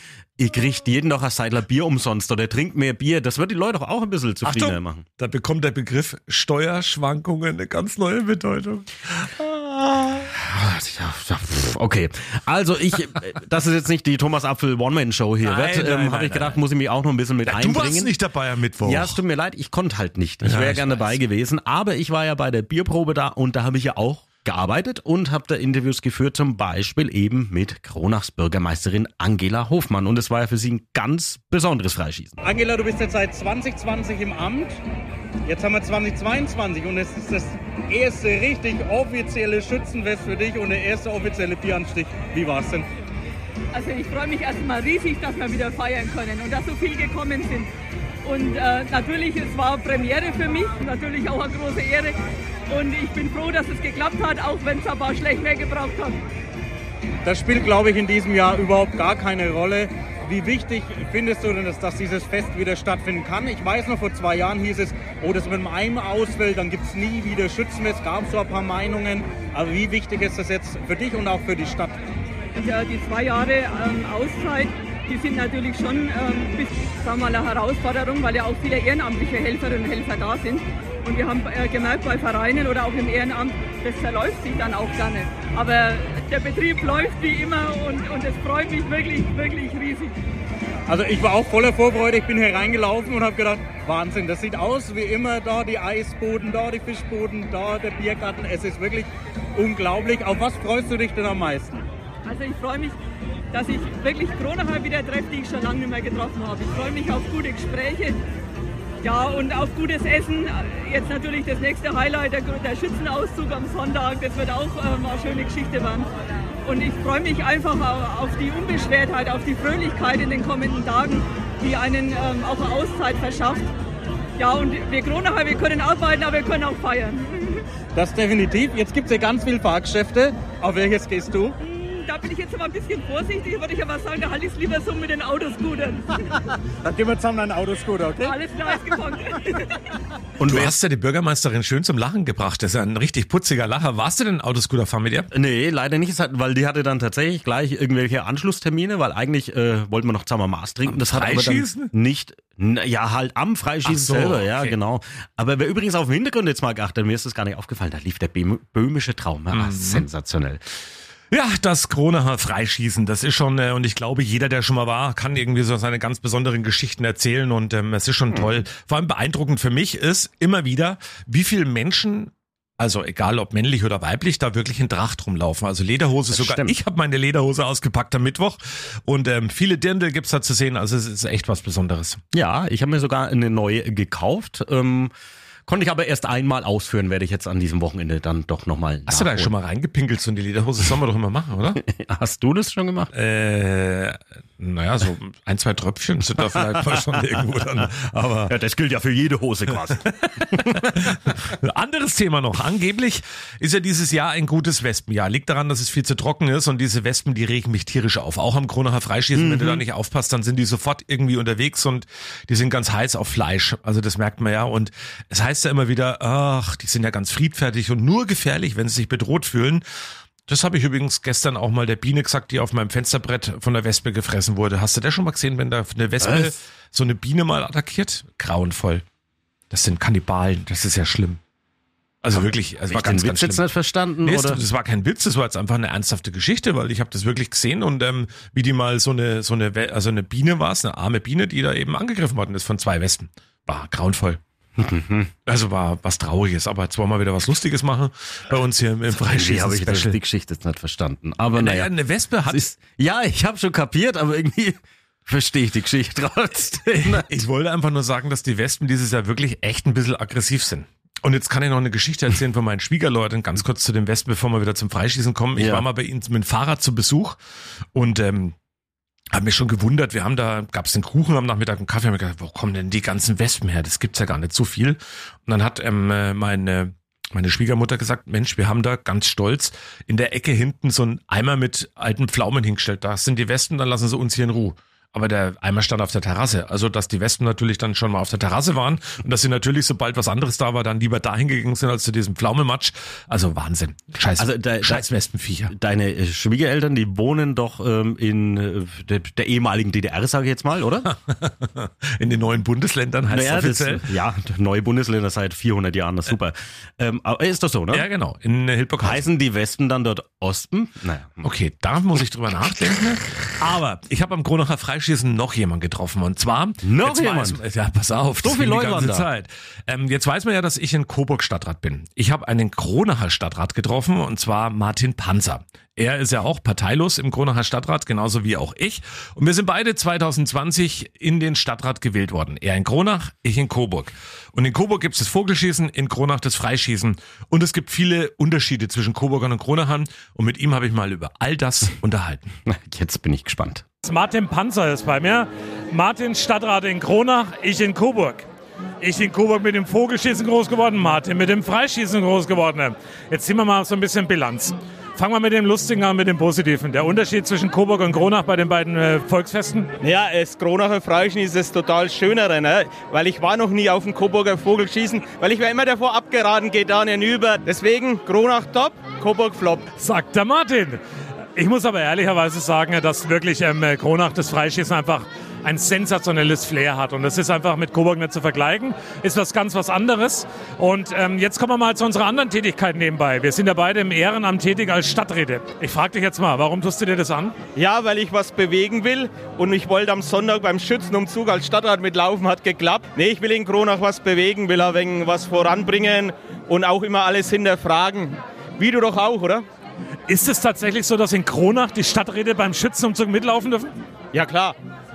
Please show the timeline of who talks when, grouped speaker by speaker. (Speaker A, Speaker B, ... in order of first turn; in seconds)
Speaker A: 0.4-5.0, 10.4-18.1, 18.8-32.4, 140.4-140.7, 145.3-160.6, 176.3-176.8, 182.3-185.1, 185.7-189.5, 191.8-193.1, 196.5-197.9, 198.5-201.5, 209.4-209.8, 226.2-226.5, 232.4-234.6, 244.8-245.3, 249.1-251.9, 252.5-257.2, 265.6-265.9, 294.4-295.0, 295.7-301.1, 303.3-308.1, 309.0-311.4, 316.8-317.6, 318.4-319.3, 342.7-343.9
Speaker B: 4.4-10.3, 15.4-16.6, 17.4-19.2, 20.4-21.2, 140.5-145.3, 150.9-151.9, 153.8-154.8, 159.5-160.1, 161.3-182.2, 189.1-191.8, 193.1-198.5, 200.4-219.8, 220.5-229.1, 229.7-231.4, 232.2-233.7, 234.2-244.4, 245.5-250.2, 251.5-252.7, 257.0-267.4, 267.9-268.6, 269.3-295.7, 301.1-304.1, 307.9-309.3, 311.4-342.5
Speaker C: 32.4-34.8, 35.5-42.9, 57.2-72.0, 90.9-101.9, 127.9-131.6, 136.8-138.4
Speaker D: 43.7-47.7, 48.2-52.2, 52.7-56.2, 72.5-90.2, 102.3-103.0, 103.5-108.2, 109.0-116.1, 116.7-123.7, 124.4-127.6, 131.6-136.1, 138.2-139.8
Speaker E: 344.0-348.5, 349.0-359.9, 370.0-371.0, 371.6-387.6, 400.3-403.9
Speaker F: 360.0-369.9, 387.8-399.6, 404.3-404.8